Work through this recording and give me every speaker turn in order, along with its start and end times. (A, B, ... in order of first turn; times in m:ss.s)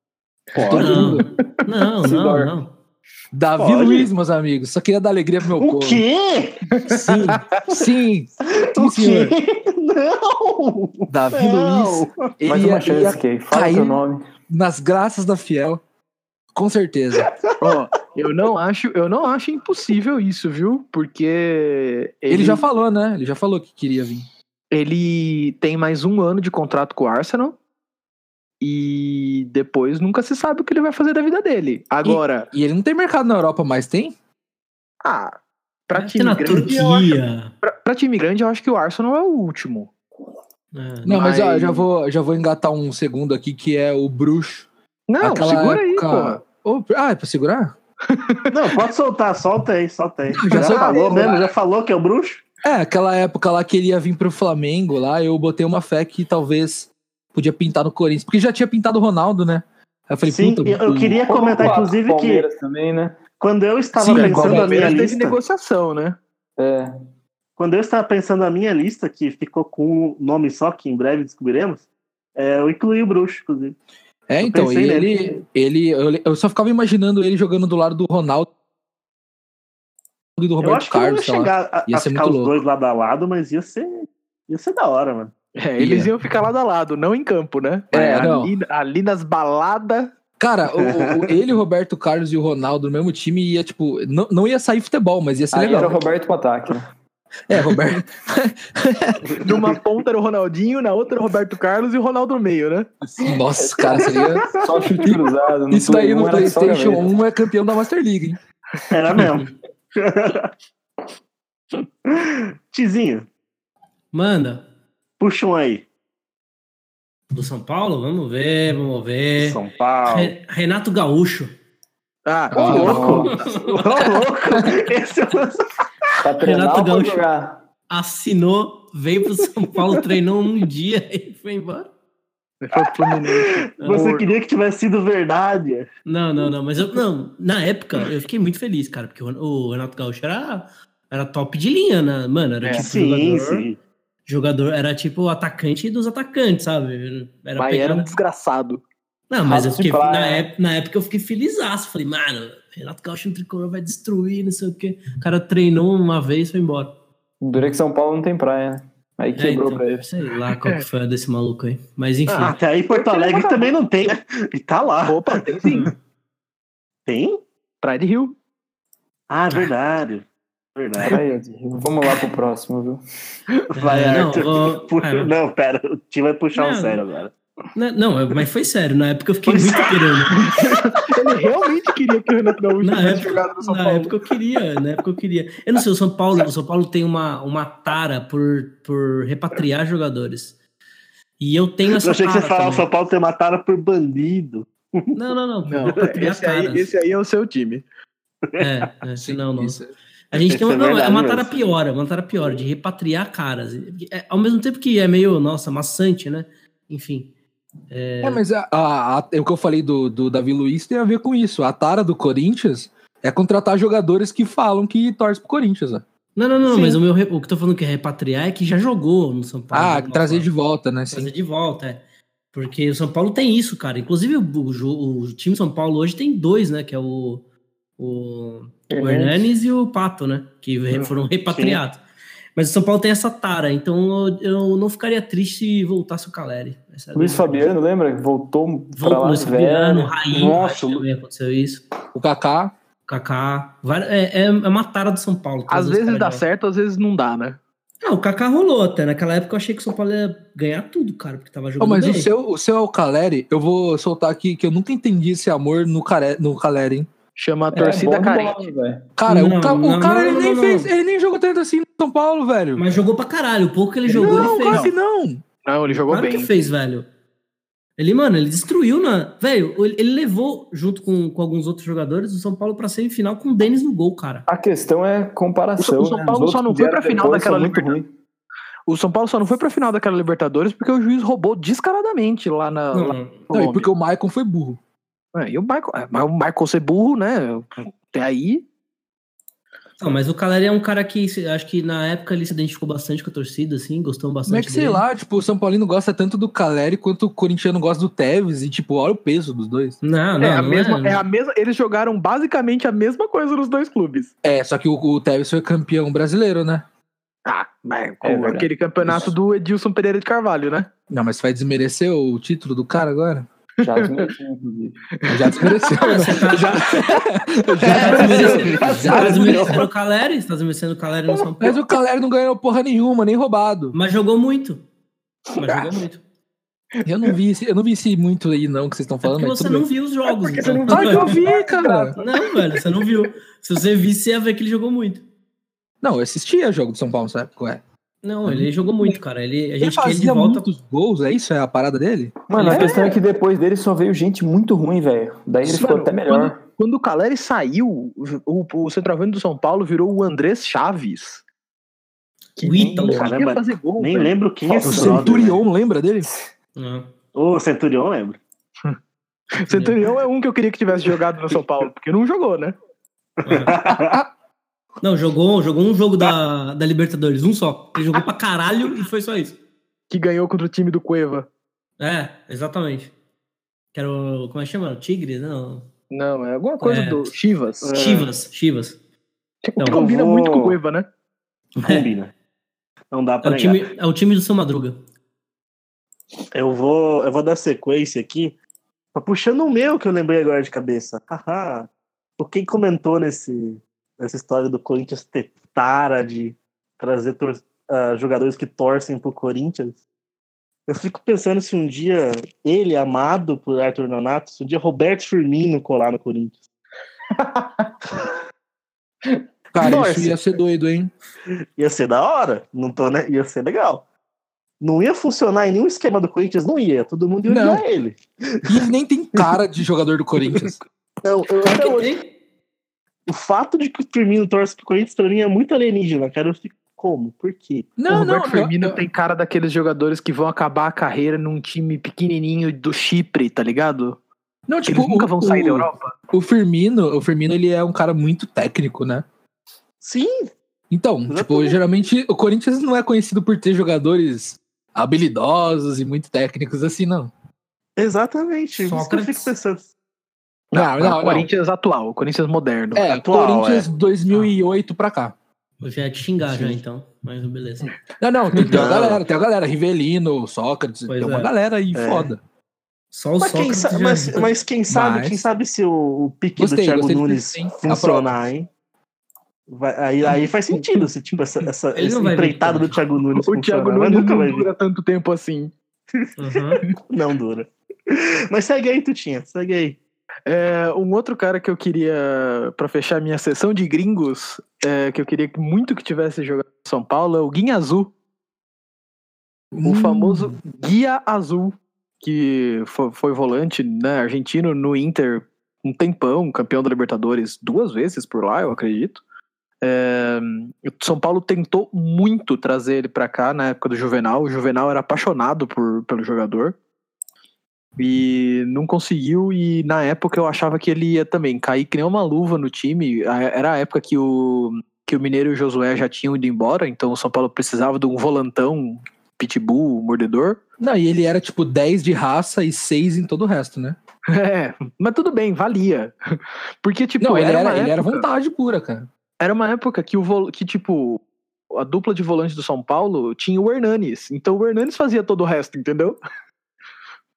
0:00.5-0:01.3 A
0:00.6-0:01.0 B
0:00.7-0:01.1 C
0:00.7-0:02.7 D
0:02.0-0:02.5 C
0:03.3-0:06.0 A
0:03.6-0:04.1 E
0:05.6-0:06.6 E
0:06.8-0:07.3 B
0:07.1-0:07.3 D
0:07.7-0:09.3 A
0:08.6-0:12.2 E
0:11.1-0:15.8 A
0:12.4-0:14.2 C
0:16.5-0:17.3 A
0:17.6-0:22.6 B
0:22.3-0:24.2 A
0:24.7-0:27.6 B
0:28.6-0:32.5 B
0:32.0-0:34.1 A
0:35.0-0:35.4 B
0:35.9-0:39.9 B
0:35.9-0:37.5 D
0:40.7-0:41.2 D
0:41.0-0:44.7 A
0:41.1-0:41.8 B
0:45.1-0:46.4 B
0:45.2-0:47.7 A
0:48.1-0:48.5 B
0:48.5-0:52.4 E
0:50.3-0:51.4 A
0:50.5-0:51.5 B
0:52.6-1:01.2 A
1:00.2-1:02.5 E
1:01.2-1:03.2 C
1:03.4-1:05.4 E
1:04.0-1:05.1 A
1:04.1-1:06.2 B
1:06.6-1:06.9 C
1:07.6-1:11.8 E
1:12.4-1:13.8 E
1:14.3-1:18.5 A
1:14.4-1:15.4 E
1:20.4-1:22.6 A
1:20.6-1:25.3 E
1:25.6-1:30.1 B
1:25.8-1:26.1 A
1:27.9-1:28.5 A
1:30.4-1:36.0 A
1:30.7-1:31.3 E
1:35.5-1:36.9 C
1:37.5-1:39.4 A
1:39.2-1:39.7 E
1:39.4-1:42.9 B
1:43.0-1:44.5 A
1:43.5-1:47.1 C
1:44.2-1:44.6 E
1:45.7-1:48.4 A
1:48.9-1:50.5 E
1:52.1-1:53.3 E
1:54.1-1:54.7 D
1:55.2-1:55.8 E
1:57.3-2:01.5 D
1:59.4-2:00.3 E
2:02.2-2:03.6 B
2:02.5-2:03.2 A
2:02.6-2:05.6 E
2:02.8-2:03.3 C
2:03.2-2:04.0 D
2:06.2-2:07.6 C
2:06.4-2:07.2 D
2:07.9-2:11.9 D
2:12.6-2:14.3 B
2:12.7-2:15.9 E
2:13.8-2:14.1 D
2:16.0-2:23.7 D
2:22.6-2:22.9 B
2:22.8-2:23.8 E
2:24.2-2:28.1 D
2:27.6-2:28.8 B
2:29.3-2:37.0 D
2:29.4-2:30.5 C
2:37.4-2:40.1 C
2:39.4-2:42.6 D
2:42.3-2:42.5 B
2:42.4-2:45.4 E
2:43.2-2:43.5 B
2:45.0-2:45.9 B
2:47.1-2:47.4 E
2:47.8-2:48.4 B
2:49.3-2:51.2 E
2:51.0-2:53.0 C
2:53.7-2:57.3 E
2:53.8-2:55.3 D
2:56.5-2:57.0 D
2:57.7-3:00.4 D
3:00.5-3:04.1 B
3:02.8-3:10.6 D
3:11.4-3:12.9 D
3:11.9-3:15.2 E
3:15.1-3:16.9 D
3:15.7-3:17.8 B
3:18.6-3:19.8 D
3:19.2-3:19.9 A
3:20.3-3:27.3 D
3:20.3-3:21.7 E
3:27.9-3:28.4 D
3:28.2-3:36.0 A
3:36.4-3:40.5 D
3:39.7-3:41.3 A
3:41.1-3:42.0 D
3:42.5-3:47.4 D
3:48.0-3:52.0 D
3:48.9-3:49.5 C
3:51.5-3:51.8 E
3:52.6-3:57.7 D
3:57.1-4:01.0 C
3:59.0-4:01.9 D
4:02.1-4:02.7 A
4:03.1-4:06.4 D
4:05.7-4:07.6 B
4:08.0-4:12.3 D
4:11.8-4:17.1 A
4:17.4-4:18.7 B
4:17.7-4:19.1 C
4:19.2-4:23.0 A
4:19.3-4:20.9 D
4:22.8-4:24.9 D
4:24.1-4:25.0 B
4:24.1-4:25.4 A
4:25.6-4:26.5 B
4:26.1-4:27.1 D
4:28.0-4:34.5 D
4:34.5-4:38.1 C
4:35.8-4:38.0 B
4:38.9-4:43.9 B
4:42.9-4:43.5 D
4:43.5-4:44.8 A
4:45.3-4:48.6 B
4:50.0-4:55.0 D
4:54.5-5:00.0 A
5:00.0-5:01.2 D
5:00.4-5:04.3 B
5:04.4-5:06.8 A
5:07.4-5:10.9 B
5:08.2-5:09.3 C
5:11.1-5:13.5 A
5:13.8-5:15.0 C
5:13.8-5:14.3 B
5:15.2-5:16.0 B
5:15.3-5:19.7 A
5:16.0-5:16.9 D
5:17.8-5:21.8 D
5:17.8-5:18.7 B
5:18.0-5:19.9 E
5:21.6-5:24.0 A
5:23.9-5:24.8 D
5:25.6-5:26.2 D
5:25.6-5:26.0 B
5:27.0-5:29.9 A
5:29.2-5:31.4 D
5:30.3-5:33.0 B
5:30.9-5:32.2 A
5:32.2-5:35.2 D
5:36.0-5:37.8 A
5:38.2-5:40.7 D
5:38.4-5:39.2 A
5:39.8-5:42.4 A
5:42.5-5:46.6 C
5:42.5-5:43.2 D
5:42.6-5:43.0 B
5:45.6-5:51.4 B
5:52.6-5:55.4 B
5:52.6-5:53.3 D
5:53.0-5:55.6 E
5:54.8-5:56.3 A
5:56.8-5:57.1 D
5:57.3-5:58.4 E
5:59.6-6:02.7 B
5:59.7-6:00.0 D
6:03.4-6:04.2 E
6:03.4-6:03.8 D
6:05.0-6:09.6 D
6:10.1-6:11.5 B
6:12.0-6:13.1 D
6:13.9-6:15.9 D
6:16.1-6:18.2 B
6:16.8-6:17.3 D
6:17.8-6:18.3 E
6:17.9-6:19.0 D
6:19.6-6:21.1 B
6:19.8-6:20.0 D
6:19.9-6:20.8 E
6:21.8-6:22.1 D
6:21.8-6:22.3 E
6:23.1-6:23.9 E
6:23.4-6:25.0 D
6:26.5-6:28.6 E
6:29.1-6:40.0 E
6:40.9-6:46.6 E
6:47.4-6:47.9 B
6:49.7-6:51.1 A
6:49.8-6:50.4 E
6:51.8-6:54.0 E
6:54.8-6:58.8 E
6:57.4-6:57.8 A
6:58.6-7:00.8 A
7:01.2-7:02.1 E
7:01.7-7:02.3 D
7:03.3-7:07.9 E
7:08.0-7:09.0 A
7:08.1-7:14.2 B
7:14.7-7:19.2 A
7:14.9-7:16.2 B
7:20.0-7:20.5 E
7:20.9-7:27.3 A
7:21.3-7:21.8 E
7:28.0-7:29.9 E
7:28.8-7:29.5 D
7:30.7-7:33.1 B
7:30.7-7:31.5 A
7:33.0-7:35.3 A
7:33.0-7:33.9 E
7:35.8-7:37.9 D
7:36.5-7:36.8 A
7:38.2-7:42.4 A
7:38.6-7:38.9 B
7:38.7-7:39.2 E
7:41.1-7:41.5 D
7:41.9-7:42.3 E
7:43.1-7:44.5 D
7:43.4-7:48.7 E
7:44.9-7:45.4 A
7:46.6-7:48.3 A
7:49.7-7:54.7 E
7:52.0-7:53.0 D
7:53.5-7:55.7 B
7:56.4-7:56.8 D
7:57.1-8:00.0 E
8:00.5-8:08.1 B
8:09.7-8:10.6 A
8:09.8-8:19.2 B
8:19.8-8:26.8 B
8:28.0-8:40.6 B
8:40.8-8:44.0 A
8:44.3-8:46.1 B
8:46.8-8:48.2 B
8:47.2-8:49.1 A
8:49.4-8:56.2 B